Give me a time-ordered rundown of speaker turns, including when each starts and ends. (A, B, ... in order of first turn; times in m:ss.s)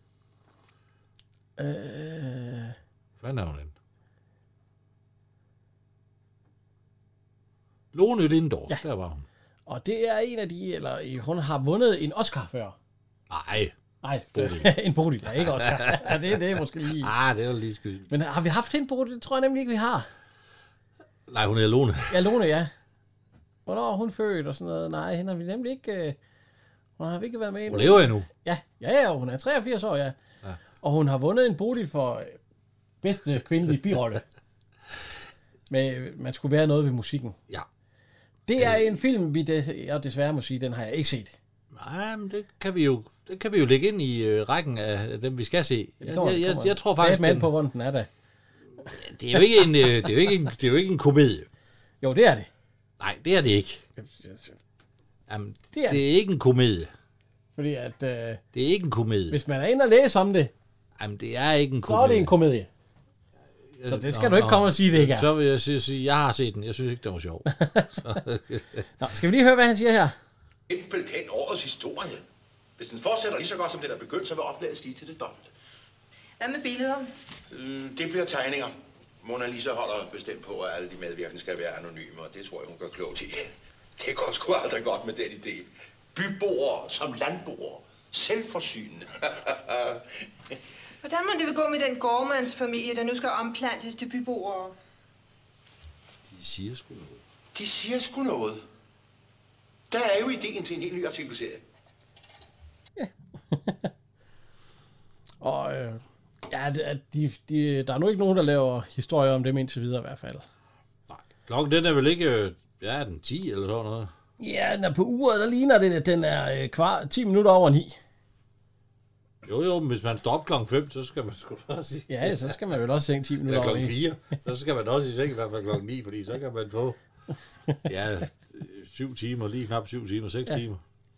0:01.6-0:02.7 A
0:03.2-0:03.7 B
0:07.9-0:09.2 B
0:09.7-0:12.8 A
0:13.3-0:13.7 B
0:14.0-0:17.1 A
0:14.3-0:14.7 B
0:15.3-0:18.1 B
0:18.1-0:20.1 A
0:21.3-0:22.2 B
0:22.1-0:22.7 A
0:23.6-0:26.2 A
0:27.0-0:30.1 A
0:27.7-0:28.3 B
0:30.8-0:32.4 A
0:33.0-0:34.2 A
0:35.7-0:37.4 A
0:38.5-0:41.4 A
0:41.7-0:47.5 B
0:46.0-0:48.1 A
0:48.9-0:51.5 B
0:52.0-0:52.5 A
0:53.0-0:53.8 B
0:54.0-0:54.6 A
0:55.3-0:56.9 B
0:55.7-0:56.0 A
0:57.6-0:58.4 A
0:58.5-0:59.4 B
0:59.3-1:00.5 A
1:01.0-1:02.3 B
1:01.8-1:02.7 A
1:03.7-1:08.9 B
1:03.9-1:05.3 A
1:07.5-1:08.0 A
1:09.0-1:10.1 A
1:10.7-1:12.2 C
1:12.8-1:15.5 C
1:16.4-1:17.1 D
1:17.5-1:30.0 C
1:31.0-1:34.7 D
1:36.2-1:37.2 B
1:37.5-1:38.6 C
1:39.9-1:41.6 C
1:43.0-1:43.9 A
1:45.4-1:50.4 A
1:51.1-1:54.1 B
1:54.4-1:58.0 A
1:59.4-2:02.6 B
2:02.1-2:04.0 A
2:03.4-2:07.0 B
2:07.8-2:10.8 B